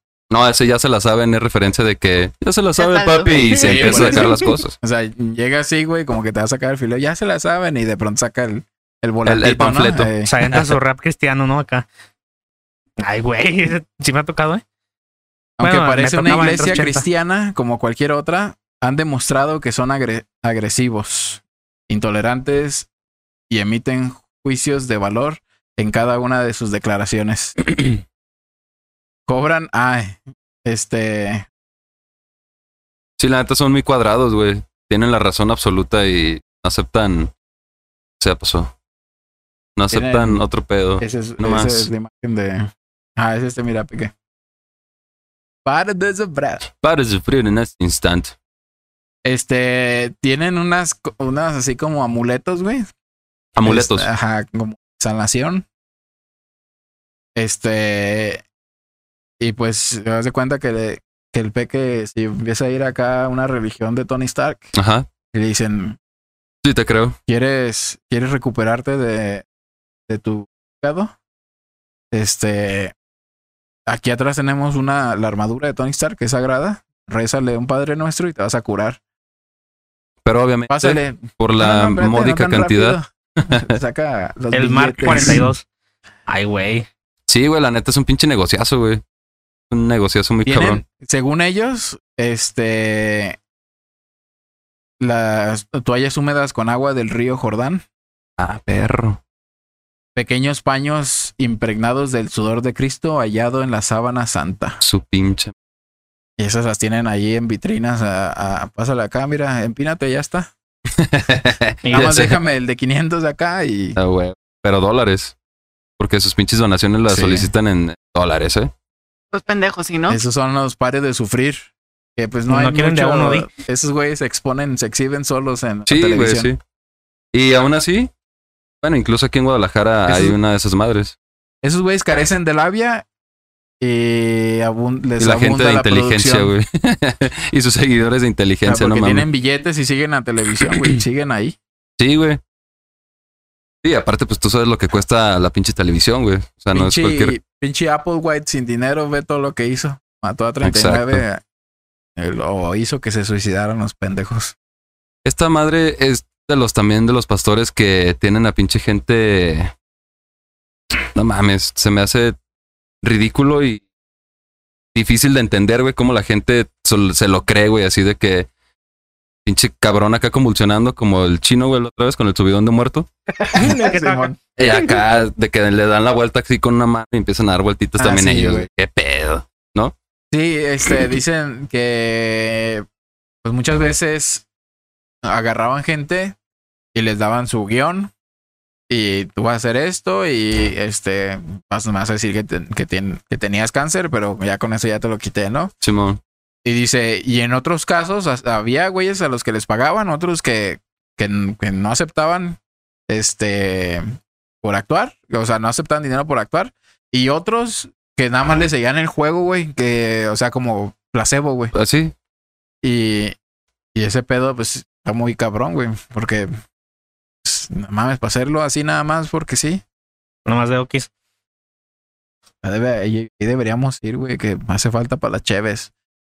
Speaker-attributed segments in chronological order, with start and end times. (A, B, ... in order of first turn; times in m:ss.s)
0:00.3-0:04.8 A
0:02.8-0:04.2 B
0:03.6-0:10.3 C
0:09.2-0:10.8 A
0:10.3-0:11.9 D
0:13.0-0:14.6 D
0:15.6-0:22.9 C
0:15.6-0:17.0 D
0:23.5-0:28.0 C
0:29.3-0:31.5 C
0:33.2-0:37.3 A
0:38.2-0:38.7 A
0:39.8-0:41.9 A
0:39.9-0:40.4 C
0:41.0-0:44.1 C
0:45.6-0:46.7 C
0:46.8-0:48.4 A
0:49.2-0:52.9 C
0:53.6-0:54.1 A
0:53.6-0:55.7 C
0:57.4-0:58.4 C
0:59.4-1:04.7 C
1:04.7-1:05.1 A
1:05.3-1:06.0 C
1:06.6-1:07.2 A
1:07.3-1:09.5 C
1:10.1-1:11.1 C
1:12.1-1:12.9 C
1:13.9-1:19.0 C
1:20.2-1:23.7 A
1:20.7-1:25.5 C
1:24.5-1:25.6 D
1:25.1-1:25.4 A
1:26.3-1:26.9 D
1:27.3-1:29.0 A
1:29.7-1:30.8 A
1:30.4-1:33.4 C
1:35.0-1:37.8 C
1:38.4-1:39.2 A
1:40.2-1:44.8 C
1:44.8-1:45.5 A
1:46.4-1:50.5 C
1:51.0-1:52.4 A
1:51.8-1:52.2 D
1:51.9-1:54.0 C
1:54.0-1:55.4 A
1:56.0-1:58.7 A
1:57.1-1:57.5 C
1:59.3-2:00.2 B
2:00.1-2:06.5 C
2:02.5-2:03.5 D
2:05.9-2:06.6 A
2:07.3-2:08.1 A
2:08.8-2:11.2 A
2:10.1-2:10.4 C
2:11.6-2:13.1 C
2:13.8-2:16.5 C
2:15.2-2:19.3 A
2:18.6-2:21.6 C
2:22.0-2:22.4 A
2:23.8-2:27.4 A
2:26.7-2:31.4 C
2:30.6-2:31.2 A
2:32.2-2:34.6 C
2:35.2-2:39.7 A
2:41.1-2:42.4 A
2:43.0-2:43.8 A
2:44.9-2:48.5 A
2:49.5-2:53.1 A
2:53.4-2:54.4 C
2:53.6-2:54.8 D
2:54.6-2:59.9 A
2:58.0-2:58.7 C
3:00.3-3:02.9 C
3:03.4-3:04.4 C
3:05.2-3:06.4 C
3:06.9-3:08.1 C
3:08.9-3:15.7 C
3:15.8-3:16.2 A
3:16.6-3:24.0 C
3:24.6-3:31.7 C
3:31.7-3:32.1 A
3:32.8-3:33.4 C
3:34.0-3:36.5 C
3:37.4-3:39.8 C
3:40.5-3:41.1 D
3:42.6-3:45.9 C